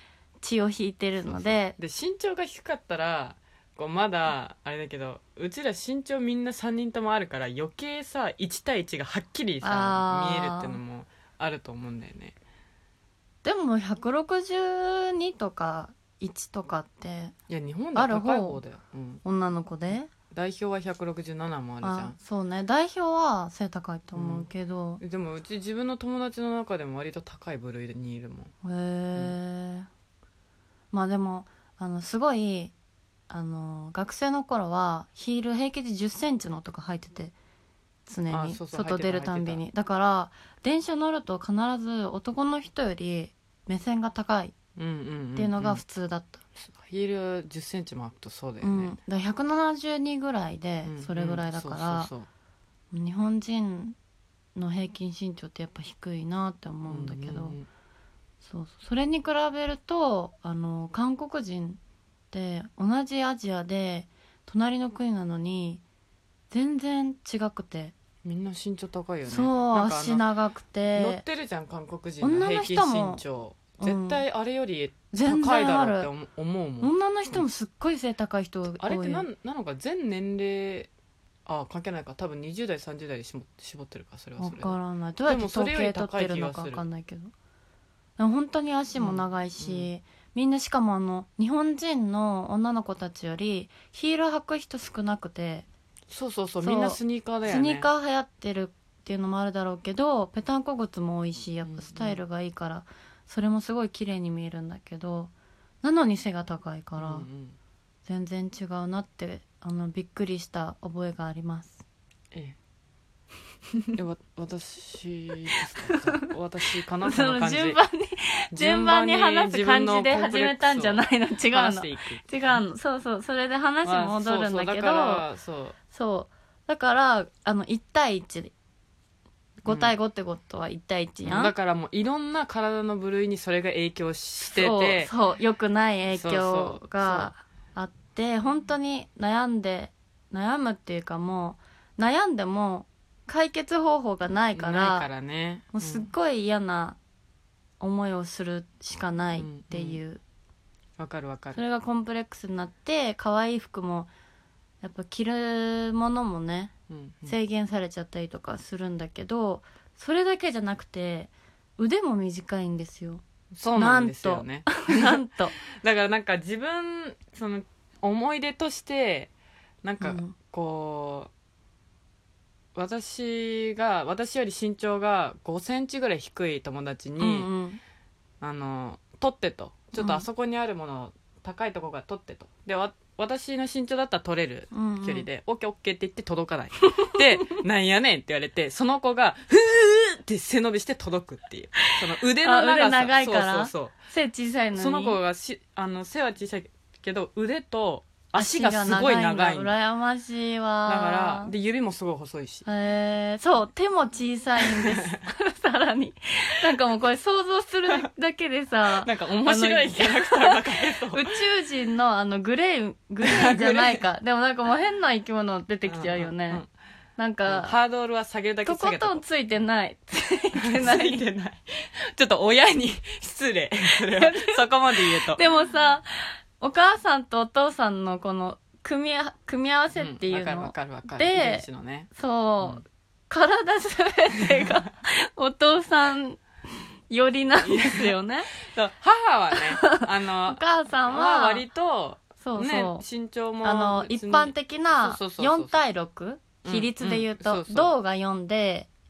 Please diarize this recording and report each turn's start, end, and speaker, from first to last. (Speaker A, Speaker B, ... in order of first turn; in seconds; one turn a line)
Speaker A: 0.4-1.8
Speaker B: 1.3-12.4
Speaker A: 9.6-10.8
Speaker A: 13.4-17.4
Speaker B: 17.5-19.2
Speaker A: 17.9-18.6
Speaker A: 19.2-20.1
Speaker B: 20.3-22.2
Speaker A: 21.8-25.0
Speaker B: 24.1-24.5
Speaker B: 25.0-28.5
Speaker A: 28.6-29.9
Speaker A: 30.9-32.7
Speaker A: 33.3-37.4
Speaker A: 38.1-44.5
Speaker B: 38.3-39.6
Speaker B: 44.8-45.8
Speaker A: 45.4-46.4
Speaker B: 46.6-49.0
Speaker A: 48.6-52.1
Speaker B: 50.8-52.3
Speaker A: 52.9-54.0
Speaker A: 54.5-57.6
Speaker B: 56.9-57.7
Speaker A: 58.4-61.8
Speaker A: 62.3-65.8
Speaker A: 66.5-67.9
Speaker B: 68.2-70.3
Speaker A: 69.3-71.2
Speaker B: 70.9-77.4
Speaker A: 72.2-73.2
Speaker A: 73.8-74.2
Speaker A: 75.1-76.1
Speaker A: 76.8-79.3
Speaker B: 78.8-80.9
Speaker B: 81.5-86.8
Speaker A: 84.4-87.3
Speaker A: 88.2-95.7
Speaker B: 89.0-89.9
Speaker B: 96.1-97.9
Speaker A: 96.6-107.3
Speaker B: 101.6-102.2
Speaker B: 107.0-107.6
Speaker A: 108.0-111.8
Speaker B: 112.3-112.6
Speaker B: 114.0-117.8
Speaker A: 115.9-116.3
Speaker A: 117.0-125.2
Speaker B: 118.5-122.6
Speaker B: 123.8-125.8
Speaker A: 125.9-128.5
Speaker A: 129.6-131.5
Speaker B: 129.7-129.9
Speaker B: 131.2-135.1
Speaker A: 134.4-145.1
Speaker B: 136.1-137.3
Speaker B: 144.5-146.1
Speaker A: 145.7-147.0
Speaker A: 147.8-150.2
Speaker B: 149.4-150.0
Speaker B: 151.0-151.6
Speaker A: 151.6-154.1
Speaker A: 154.8-156.7
Speaker B: 156.9-157.3
Speaker A: 157.3-165.6
Speaker B: 163.6-165.2
Speaker B: 165.8-169.3
Speaker B: 169.8-171.3
Speaker A: 170.0-170.3
Speaker B: 172.8-177.5
Speaker A: 177.2-177.8
Speaker B: 178.4-194.0
Speaker A: 180.0-180.2
Speaker A: 184.7-185.3
Speaker A: 192.4-195.2
Speaker B: 194.7-199.7
Speaker A: 198.3-201.5
Speaker B: 200.9-202.7
Speaker A: 202.7-216.6
Speaker B: 204.6-205.1
Speaker B: 209.0-211.3
Speaker B: 213.2-214.0
Speaker B: 215.9-216.7
Speaker A: 217.2-217.8
Speaker B: 217.5-219.2
Speaker A: 218.7-221.2
Speaker B: 220.6-225.4
Speaker A: 224.1-236.4
Speaker B: 230.0-232.1
Speaker A: 237.1-238.5
Speaker B: 237.6-245.8
Speaker A: 239.8-241.7
Speaker A: 242.4-243.0
Speaker A: 243.6-248.9
Speaker B: 246.6-247.9